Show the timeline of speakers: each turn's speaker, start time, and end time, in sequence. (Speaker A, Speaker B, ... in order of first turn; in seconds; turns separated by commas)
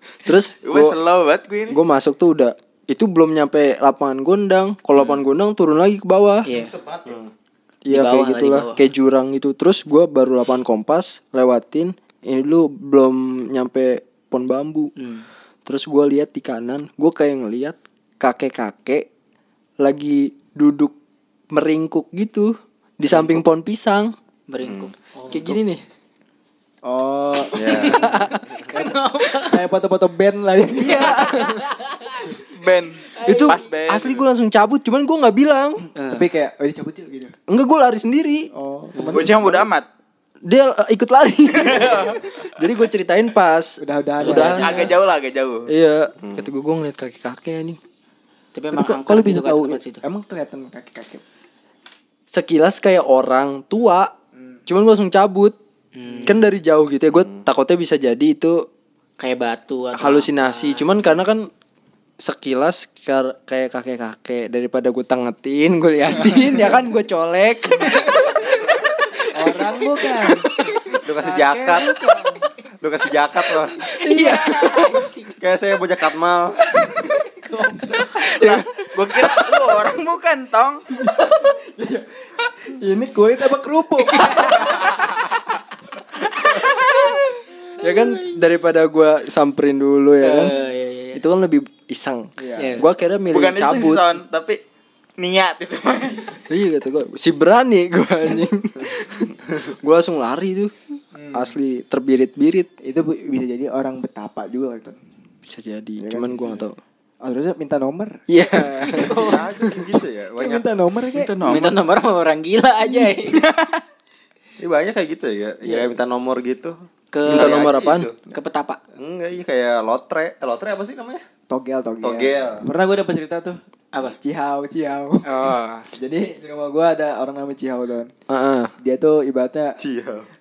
Speaker A: 0.2-0.9, Speaker B: 0.6-1.8, Speaker A: 1.7-6.5, Speaker C: 6.5-6.8, Speaker D: 6.5-7.3, Speaker A: 7.9-14.9, Speaker C: 7.9-8.9, Speaker C: 15.0-15.3, Speaker A: 15.7-19.1, Speaker A: 19.8-20.9, Speaker A: 21.5-24.1, Speaker D: 23.1-23.4, Speaker C: 24.5-25.6, Speaker D: 24.6-24.9, Speaker A: 25.3-25.8, Speaker E: 26.9-28.1, Speaker D: 27.5-28.7, Speaker C: 27.6-29.6, Speaker E: 29.4-31.3, Speaker C: 30.8-32.4, Speaker A: 30.9-31.6, Speaker B: 32.5-34.3, Speaker C: 33.1-33.7, Speaker A: 33.2-35.9, Speaker C: 36.0-36.3, Speaker E: 36.1-37.3, Speaker A: 37.5-38.5, Speaker E: 38.5-39.7, Speaker B: 39.0-39.9, Speaker A: 40.5-44.9, Speaker B: 41.5-42.3, Speaker E: 43.8-44.9, Speaker C: 44.2-44.9, Speaker B: 44.3-45.7, Speaker A: 45.7-47.8, Speaker D: 46.2-46.5, Speaker C: 48.5-50.0, Speaker E: 48.7-51.2, Speaker A: 52.3-54.1, Speaker A: 54.7-55.5, Speaker C: 56.0-56.5, Speaker A: 56.2-58.7, Speaker C: 59.2-61.2, Speaker A: 60.0-61.5, Speaker A: 62.2-68.5, Speaker C: 66.1-66.8, Speaker E: 67.8-68.3, Speaker C: 67.8-69.0, Speaker E: 69.3-70.5, Speaker C: 69.7-70.8, Speaker D: 70.9-71.9, Speaker E: 71.2-72.5, Speaker D: 72.8-73.8, Speaker C: 73.8-75.3, Speaker A: 73.9-75.1, Speaker D: 75.4-76.6, Speaker E: 76.8-77.3, Speaker C: 77.4-78.7, Speaker B: 78.3-80.8, Speaker C: 79.2-79.5, Speaker E: 81.0-82.1, Speaker E: 82.7-84.9, Speaker C: 84.1-85.0, Speaker A: 87.8-90.6, Speaker C: 90.2-91.2, Speaker A: 91.2-94.0, Speaker E: 92.4-92.8, Speaker C: 92.6-92.9, Speaker B: 93.3-94.6, Speaker B: 95.2-96.4, Speaker A: 96.5-100.7, Speaker E: 101.2-101.6, Speaker A: 101.3-102.7, Speaker E: 102.8-105.0, Speaker A: 105.5-106.8, Speaker E: 106.0-106.6, Speaker E: 107.2-111.3, Speaker A: 108.3-109.2, Speaker C: 108.9-109.5, Speaker D: 109.0-110.7, Speaker B: 111.1-111.8, Speaker C: 111.5-113.4, Speaker B: 113.3-113.8, Speaker D: 114.6-116.8, Speaker C: 117.1-117.7, Speaker A: 117.3-118.1, Speaker D: 117.3-118.2, Speaker C: 118.3-118.8, Speaker D: 119.0-121.2, Speaker E: 121.5-123.6, Speaker D: 122.0-122.7, Speaker E: 124.2-128.1, Speaker C: 125.2-125.9, Speaker A: 128.3-128.7, Speaker E: 128.8-129.8, Speaker D: 129.8-130.3